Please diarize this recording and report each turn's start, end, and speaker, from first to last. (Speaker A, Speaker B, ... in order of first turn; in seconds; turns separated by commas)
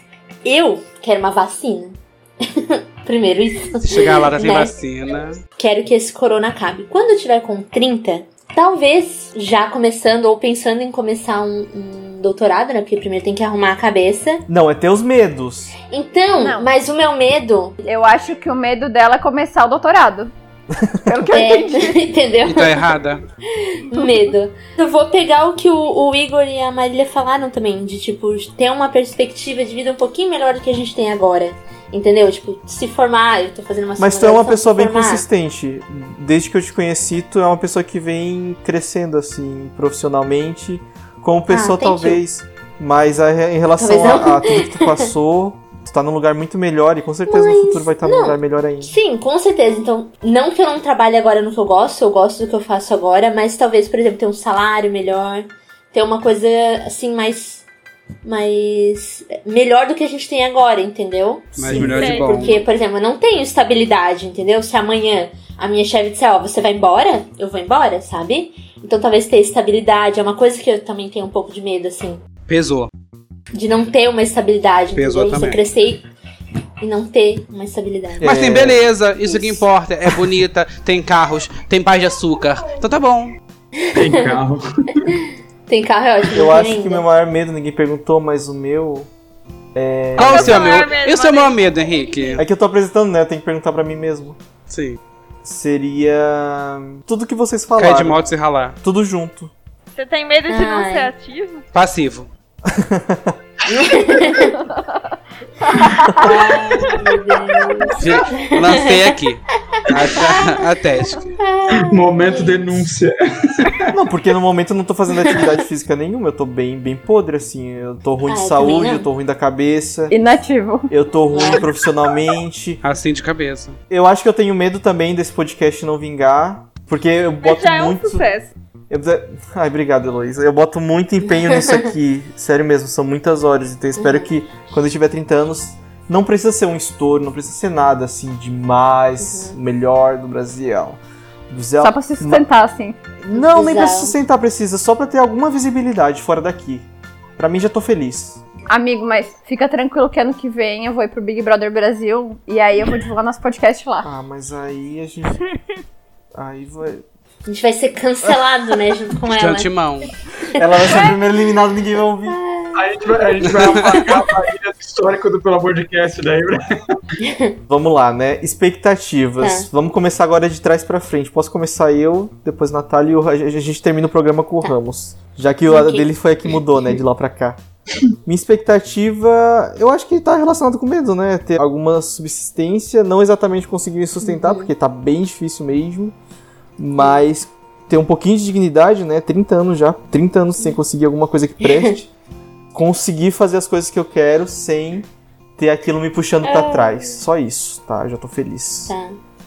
Speaker A: 0.4-2.0, Speaker A: 2.6-4.7, Speaker B: 3.9-5.4, Speaker A: 5.6-14.4, Speaker C: 14.5-15.7, Speaker A: 15.8-17.8, Speaker D: 16.4-16.7, Speaker D: 17.8-20.3, Speaker D: 21.0-22.0, Speaker A: 21.3-22.9, Speaker B: 22.4-23.2, Speaker A: 23.6-35.2, Speaker C: 34.0-49.0, Speaker A: 41.5-42.2, Speaker A: 43.8-45.1, Speaker A: 47.3-57.6, Speaker A: 58.2-72.2, Speaker B: 61.5-62.7, Speaker C: 61.6-62.1, Speaker E: 61.9-62.5, Speaker B: 72.5-72.9, Speaker A: 73.5-76.0, Speaker B: 74.9-75.6, Speaker A: 76.8-78.3, Speaker C: 78.2-78.8, Speaker B: 78.2-83.4, Speaker A: 79.2-79.7, Speaker F: 83.9-85.1, Speaker A: 84.0-84.4, Speaker A: 85.7-87.0, Speaker C: 86.3-89.1, Speaker C: 89.8-90.8, Speaker B: 90.2-92.5, Speaker E: 90.2-92.4, Speaker C: 92.4-94.4, Speaker B: 94.7-95.0, Speaker C: 95.4-98.2, Speaker B: 97.8-98.8, Speaker C: 98.8-99.5, Speaker E: 99.9-101.6, Speaker A: 100.5-101.2, Speaker B: 101.7-102.3, Speaker C: 102.7-103.3, Speaker A: 103.7-104.6, Speaker A: 106.2-109.1, Speaker B: 108.0-111.2, Speaker A: 110.1-110.6, Speaker A: 111.4-112.8, Speaker F: 111.7-113.9, Speaker C: 113.9-120.2, Speaker A: 118.2-119.1, Speaker D: 120.1-120.9, Speaker C: 120.9-122.8, Speaker A: 121.3-121.8, Speaker B: 122.8-123.8, Speaker C: 123.9-128.3, Speaker E: 127.4-128.5, Speaker C: 128.9-142.4, Speaker A: 131.3-131.9, Speaker A: 134.0-134.3, Speaker A: 139.2-139.6, Speaker D: 141.8-143.0, Speaker C: 143.2-148.4, Speaker A: 143.3-144.2, Speaker D: 148.7-154.1, Speaker C: 154.0-155.5, Speaker C: 156.3-157.0, Speaker A: 157.4-159.7, Speaker B: 159.3-160.1, Speaker A: 160.5-161.2, Speaker C: 160.6-162.4, Speaker A: 162.2-164.0, Speaker F: 162.8-166.6, Speaker B: 163.5-163.9, Speaker A: 167.3-167.6, Speaker C: 167.7-177.6, Speaker A: 169.4-169.7, Speaker A: 175.7-177.0, Speaker C: 178.3-186.2, Speaker A: 184.2-184.7, Speaker C: 186.8-192.1, Speaker A: 187.0-187.2, Speaker A: 191.7-191.9, Speaker C: 192.7-195.1, Speaker C: 195.6-198.9, Speaker A: 196.4-197.2, Speaker A: 198.9-199.2